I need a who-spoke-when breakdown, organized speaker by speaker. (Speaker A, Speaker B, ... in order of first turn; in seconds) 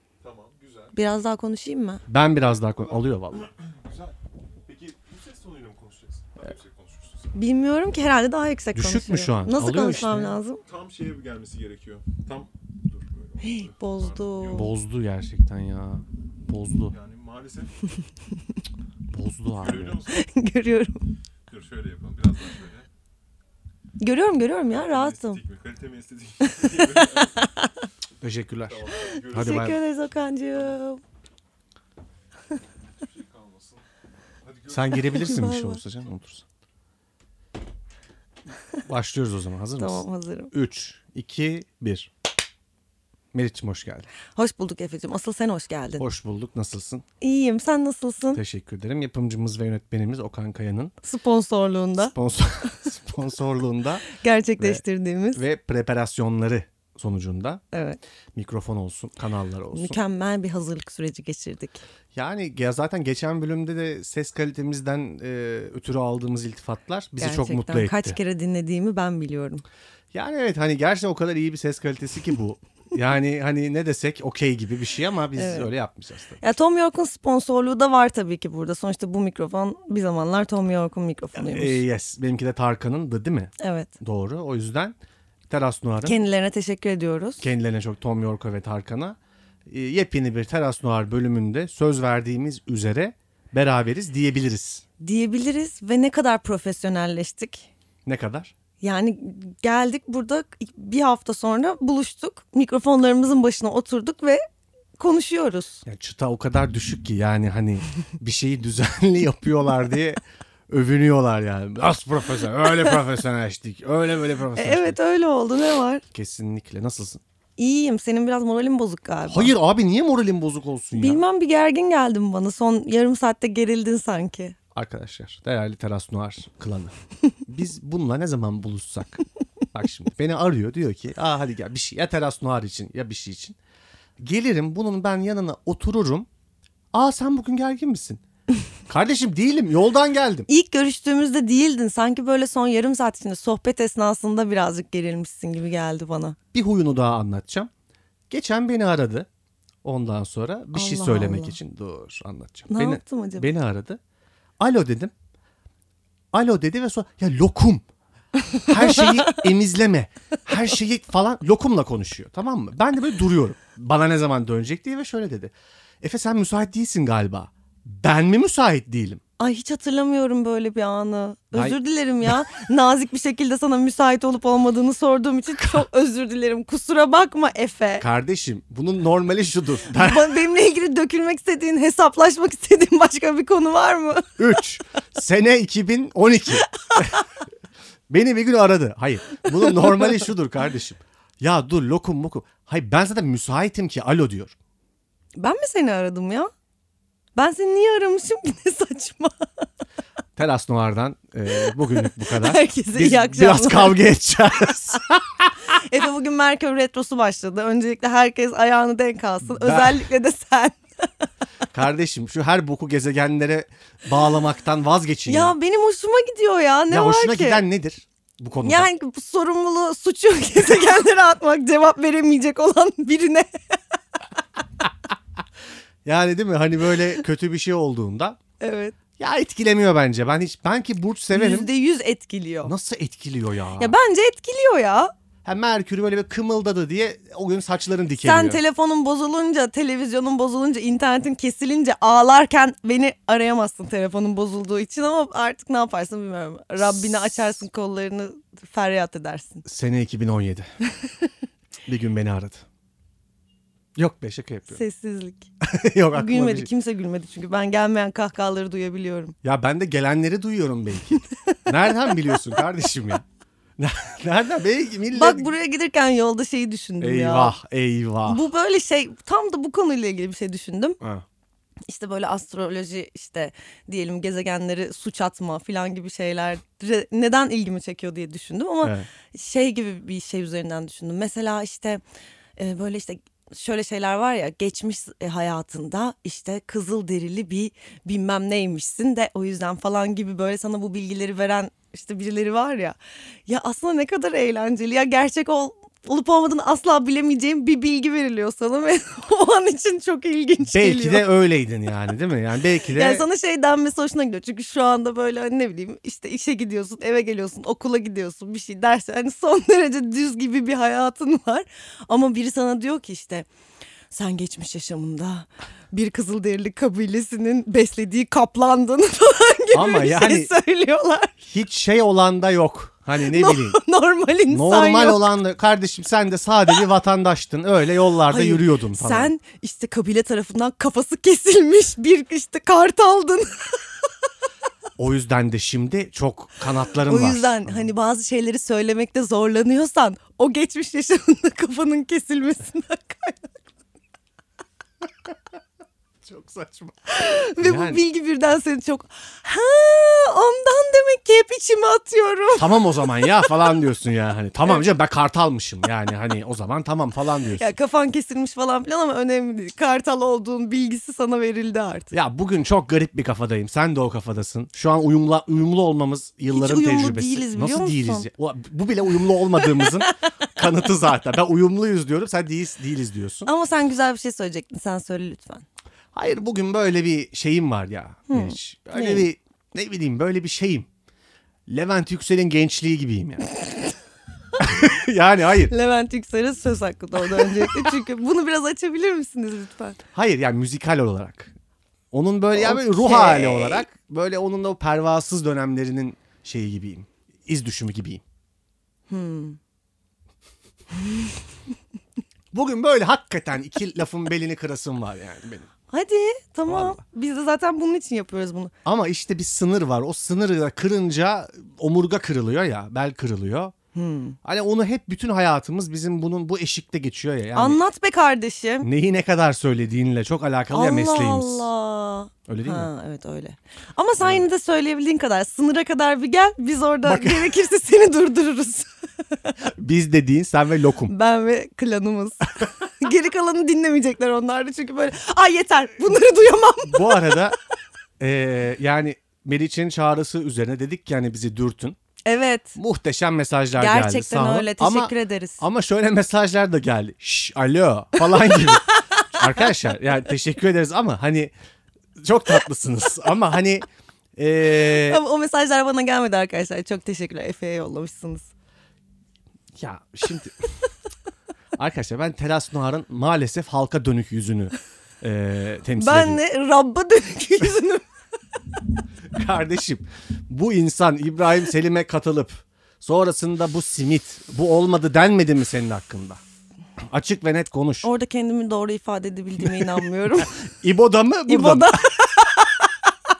Speaker A: 0.2-0.9, 3.6-7.4, 10.6-14.7, 16.9-17.8, 19.5-20.2, 21.5-22.9, 24.7-27.5, 28.6-29.8, 33.0-33.8, 34.4-35.4
Speaker B: 0.9-2.0, 7.3-10.6, 13.4-14.7, 20.1-21.1, 24.0-25.4, 26.4-27.8, 28.9-31.0, 35.1-35.8, 39.8-40.5, 44.3-46.0, 47.2-48.4, 51.0-52.1, 54.1-55.4, 57.7-58.0, 59.7-61.8, 67.2-69.6, 75.3-75.7, 76.4-81.8, 83.6-83.9, 86.0-87.4, 95.0-97.7, 98.8-104.4, 105.0-105.8, 114.5-116.0, 117.6-119.5, 120.9-124.6, 140.5-146.4, 150.7-151.6, 152.7-153.5, 158.7-159.2, 169.4-178.0, 179.9-184.3, 186.8-187.2, 189.6-190.0, 195.3-196.5, 197.3-199.7, 201.6-204.0, 205.7-211.3, 215.3-217.6, 218.6-223.8, 228.6-228.9, 231.3-232.7, 233.8-235.1, 238.2-249.6, 251.0-251.3, 254.7-255.5, 256.1-259.4, 261.3-262.4, 265.1-267.5, 268.2-271.0, 271.9-282.0, 282.6-301.3, 302.9-313.5, 314.1-321.4, 323.2-325.3, 328.3-334.1, 337.0-343.6, 347.1-353.6, 357.6-362.1, 366.5-368.3, 369.6-370.3, 373.4-375.6, 378.3-379.3, 385.7-390.0, 392.5-393.8, 399.1-399.6, 401.0-401.2, 405.9-408.7, 413.9-414.4, 417.5-418.9, 420.7-429.5, 431.1-437.4, 442.2-442.8, 443.8-445.6, 448.2-449.7, 454.6-458.5, 466.0-468.1, 478.0-480.5, 481.5-483.1
Speaker C: 2.1-3.5, 8.7-10.4, 14.5-16.9, 19.1-20.0, 28.2-29.8, 34.7-36.4, 38.8-42.1, 43.3-44.1, 46.0-47.0, 48.3-50.9, 52.0-54.8, 55.3-57.6, 58.3-60.0, 62.1-68.2, 70.1-76.4, 81.3-85.0, 85.5-86.2, 87.4-94.8, 98.0-98.5, 105.8-115.0, 116.1-117.2, 119.3-121.2, 124.7-126.9, 127.5-133.6, 134.2-136.3, 136.9-138.2, 138.9-140.5, 146.5-147.7, 148.3-149.3, 149.8-154.0, 154.6-155.1, 156.3-157.8, 158.6-169.2, 178.0-180.3, 184.4-187.2, 188.1-194.6, 200.3-205.5, 209.4-210.0, 211.7-215.5, 216.9-218.9, 226.0-228.4, 229.2-231.7, 232.6-233.9, 235.4-238.6, 246.9-247.4, 249.6-250.7, 251.8-252.6, 253.9-254.8, 255.6-256.7, 259.4-263.2, 263.8-265.5, 267.0-268.4, 278.8-279.1, 300.6-303.3, 319.7-320.5, 321.4-323.8, 324.5-329.3, 335.0-337.9, 346.2-346.9, 347.6-348.0, 352.5-357.7, 362.1-373.5, 376.1-380.9, 381.7-383.5, 384.6-385.7, 387.4-387.9, 390.1-391.5, 392.1-398.2, 402.5-405.7, 406.7-407.0, 408.8-413.7, 414.4-417.8, 418.8-421.7, 422.5-422.9, 424.2-424.4, 427.0-427.5, 429.6-431.1, 436.8-437.6, 438.2-442.0, 442.8-451.5, 452.2-455.2, 459.8-460.7, 461.8-466.4, 469.3-476.4, 477.1-478.1, 480.6-481.9